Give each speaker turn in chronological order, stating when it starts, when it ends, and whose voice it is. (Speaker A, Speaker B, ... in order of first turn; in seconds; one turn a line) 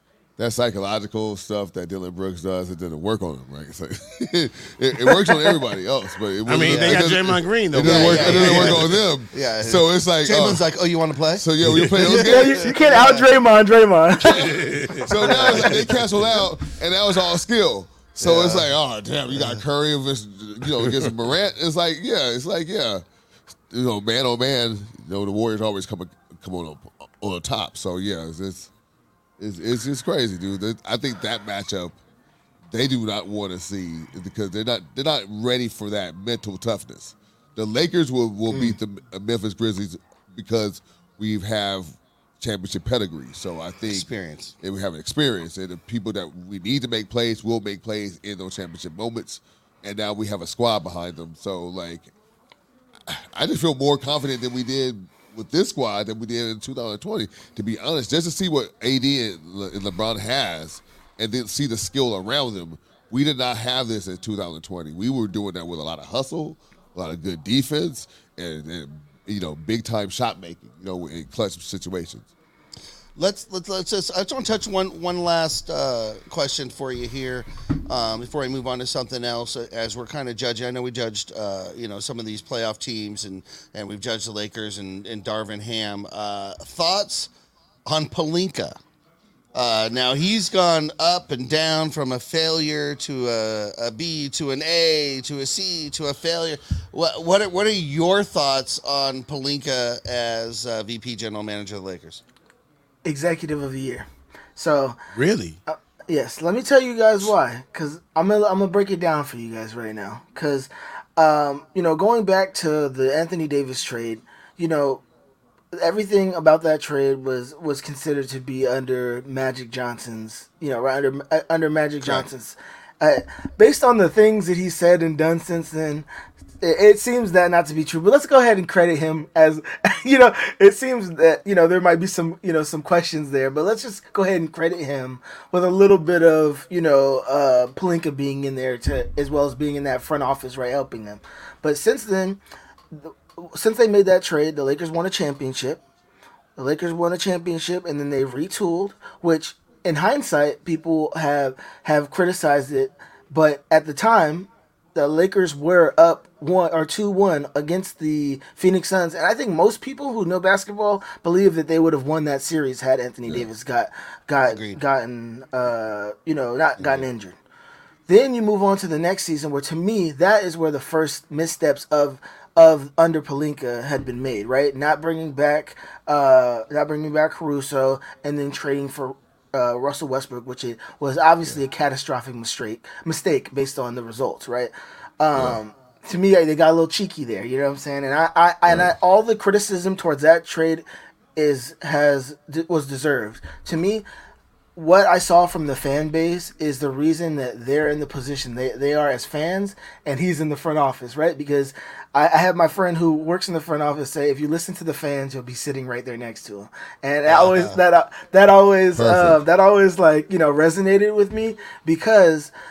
Speaker A: 0.4-10.7
Speaker B: 6.5-8.8
Speaker C: 6.6-7.1
Speaker C: 7.8-13.3
Speaker A: 11.3-12.7
Speaker D: 12.1-14.6
Speaker B: 14.3-15.8
Speaker A: 15.1-23.0
Speaker C: 15.2-16.4
Speaker C: 18.2-18.7
Speaker C: 19.3-19.6
Speaker A: 23.7-28.7
Speaker A: 29.4-32.0
Speaker A: 32.7-44.1
Speaker D: 38.5-38.8
Speaker C: 43.9-44.5
Speaker A: 44.6-52.1
Speaker A: 53.1-72.3
Speaker C: 73.2-87.3
Speaker C: 87.8-88.8
Speaker C: 89.5-102.2
Speaker D: 103.0-105.0
Speaker B: 105.1-105.6
Speaker D: 105.7-115.0
Speaker D: 115.7-126.1
Speaker D: 126.6-142.4
Speaker D: 142.9-145.8
Speaker D: 146.6-167.3
Speaker C: 164.5-164.8
Speaker D: 168.1-190.8
Speaker D: 191.3-194.0
Speaker D: 194.8-212.5
Speaker C: 207.3-207.8
Speaker A: 208.9-209.4